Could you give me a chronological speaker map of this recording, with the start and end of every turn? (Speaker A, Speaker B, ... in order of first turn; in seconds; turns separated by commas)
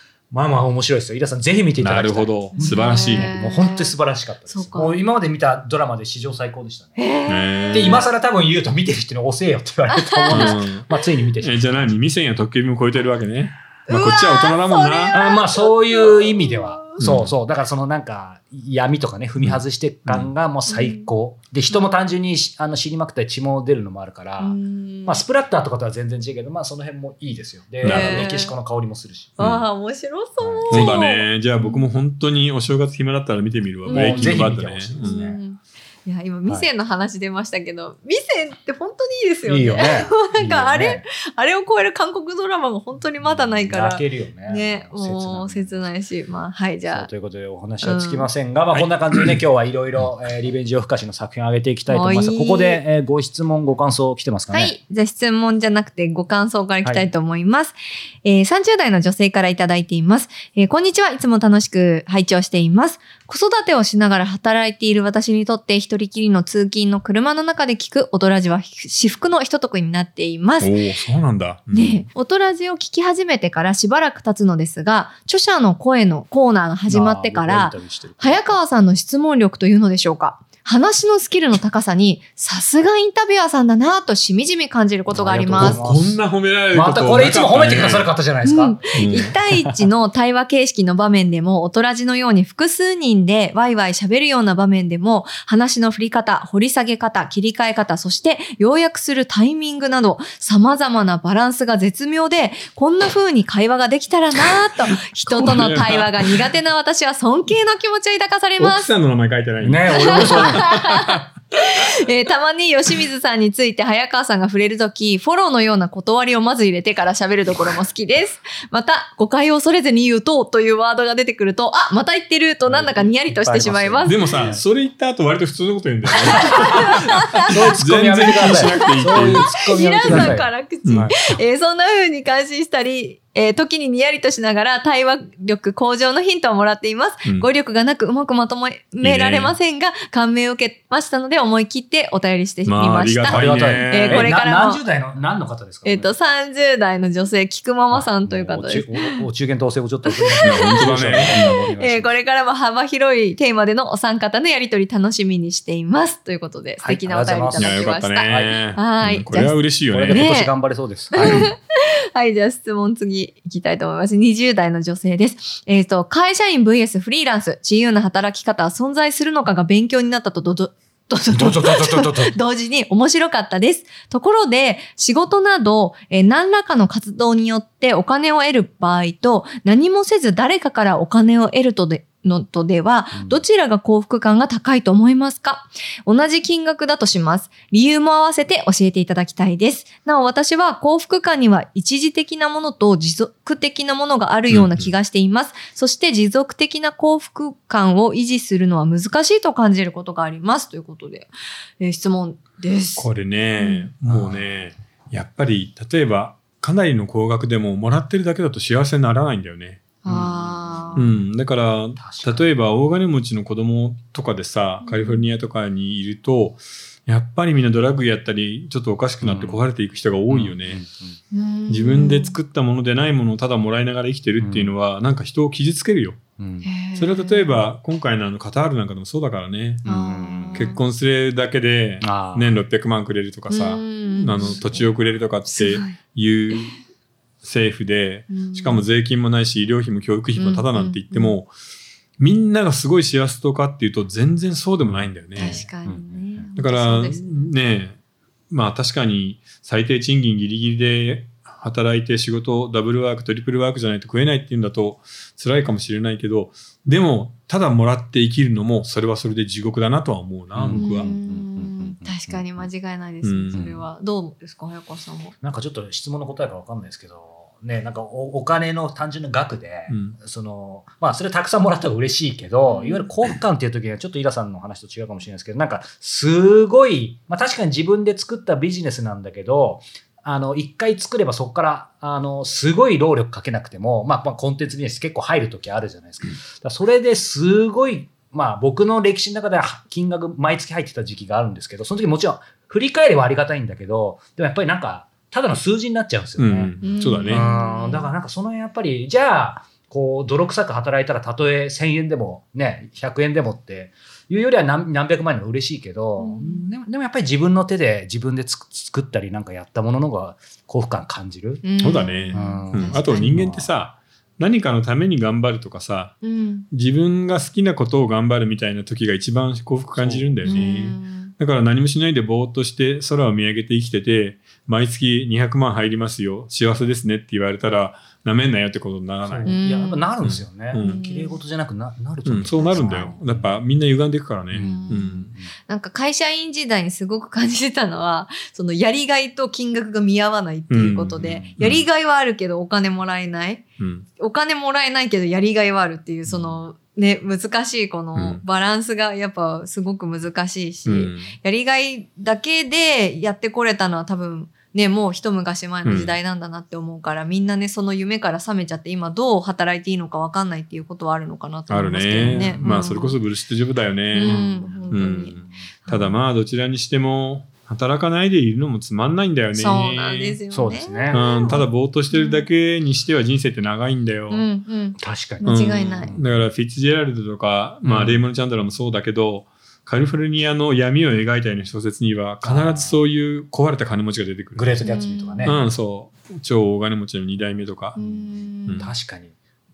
Speaker A: 0.3-7.0, Speaker B: 1.8-3.3, Speaker C: 2.6-4.0, Speaker C: 4.5-5.0, Speaker C: 7.0-8.1, Speaker B: 7.3-8.1, Speaker A: 7.7-11.9, Speaker C: 9.9-10.6, Speaker B: 10.3-10.9, Speaker B: 11.4-15.2, Speaker C: 13.9-17.0, Speaker A: 15.1-29.4, Speaker B: 17.0-17.3, Speaker B: 19.4-20.3, Speaker C: 20.7-21.1, Speaker C: 24.4-25.2, Speaker B: 27.8-28.2, Speaker C: 27.8-28.6, Speaker B: 29.4-29.7, Speaker C: 29.4-31.9, Speaker A: 30.4-31.0, Speaker B: 30.7-35.2, Speaker C: 33.9-47.1, Speaker A: 33.9-35.4, Speaker A: 39.5-41.0, Speaker A: 43.2-45.9, Speaker A: 46.9-54.7, Speaker C: 47.8-48.3, Speaker B: 48.7-49.4, Speaker C: 51.9-52.8, Speaker C: 54.5-70.9, Speaker B: 70.6-72.1, Speaker C: 71.7-85.8, Speaker A: 76.9-78.6, Speaker A: 85.1-86.2, Speaker B: 85.6-88.1, Speaker A: 86.7-89.8, Speaker C: 88.5-108.9, Speaker B: 89.0-89.3, Speaker B: 104.5-106.4, Speaker B: 108.6-111.2, Speaker A: 109.6-110.8, Speaker C: 109.9-124.5, Speaker A: 122.7-124.6, Speaker B: 124.0-129.5, Speaker C: 126.2-127.8, Speaker A: 126.3-131.2, Speaker C: 128.4-144.8, Speaker B: 130.1-131.1, Speaker B: 139.0-139.6, Speaker B: 142.7-144.3, Speaker A: 143.3-146.2, Speaker C: 145.8-149.2, Speaker A: 147.9-152.2, Speaker C: 150.1-159.6, Speaker B: 150.4-151.6, Speaker A: 156.8-158.5, Speaker B: 157.6-160.3, Speaker A: 159.9-161.5, Speaker C: 160.1-160.5, Speaker C: 161.1-203.9, Speaker A: 171.3-172.3, Speaker A: 183.1-183.4, Speaker B: 194.5-194.9, Speaker B: 203.0-209.8, Speaker A: 204.1-204.6, Speaker C: 210.0-211.1, Speaker A: 210.1-211.0, Speaker B: 210.9-220.8, Speaker A: 212.0-212.5, Speaker C: 214.8-215.3, Speaker A: 219.2-219.6, Speaker A: 220.3-221.2, Speaker C: 221.3-222.4, Speaker B: 221.7-226.2, Speaker A: 224.4-224.8, Speaker A: 226.4-226.7, Speaker C: 226.6-227.6, Speaker B: 227.0-229.9, Speaker A: 229.8-230.7, Speaker C: 229.9-230.8, Speaker B: 230.5-236.8, Speaker A: 232.0-232.5, Speaker C: 233.5-234.9, Speaker C: 235.5-236.0, Speaker B: 237.4-241.5, Speaker C: 238.3-238.8, Speaker C: 240.4-241.3, Speaker B: 242.2-245.6, Speaker A: 244.9-246.5, Speaker C: 245.4-247.5, Speaker B: 246.6-248.0, Speaker B: 248.5-261.1, Speaker A: 260.6-262.6, Speaker C: 260.8-265.3, Speaker B: 263.2-263.7, Speaker A: 263.5-263.8, Speaker A: 265.4-296.8, Speaker B: 269.9-270.2, Speaker C: 272.6-273.1, Speaker B: 296.4-297.5, Speaker C: 296.8-298.1, Speaker A: 297.3-311.7, Speaker C: 306.2-306.6, Speaker C: 311.6-313.4, Speaker B: 311.8-329.6, Speaker A: 312.3-313.7, Speaker C: 316.2-316.7, Speaker A: 319.9-320.8, Speaker C: 320.4-321.3, Speaker A: 329.3-333.6, Speaker C: 329.4-330.1, Speaker B: 330.2-331.0, Speaker C: 330.8-331.4, Speaker B: 332.2-335.3, Speaker C: 332.8-333.1, Speaker A: 334.5-335.5, Speaker C: 334.6-343.6, Speaker B: 340.7-341.9, Speaker A: 341.2-341.5, Speaker B: 343.8-344.1, Speaker C: 344.2-363.2, Speaker A: 346.3-346.6, Speaker B: 348.1-348.4, Speaker B: 350.9-351.3, Speaker B: 355.9-356.2, Speaker B: 361.7-370.4, Speaker A: 362.1-363.0, Speaker C: 364.1-366.2, Speaker A: 364.2-364.9, Speaker C: 369.6-372.4, Speaker A: 370.5-371.2, Speaker B: 371.1-374.4, Speaker C: 374.3-376.1, Speaker A: 375.0-376.4, Speaker B: 375.4-384.7, Speaker A: 377.8-378.2, Speaker A: 382.4-383.0, Speaker A: 384.6-385.6, Speaker C: 384.8-385.6, Speaker B: 385.4-388.0, Speaker C: 387.9-388.9, Speaker A: 388.0-389.4, Speaker B: 388.7-388.9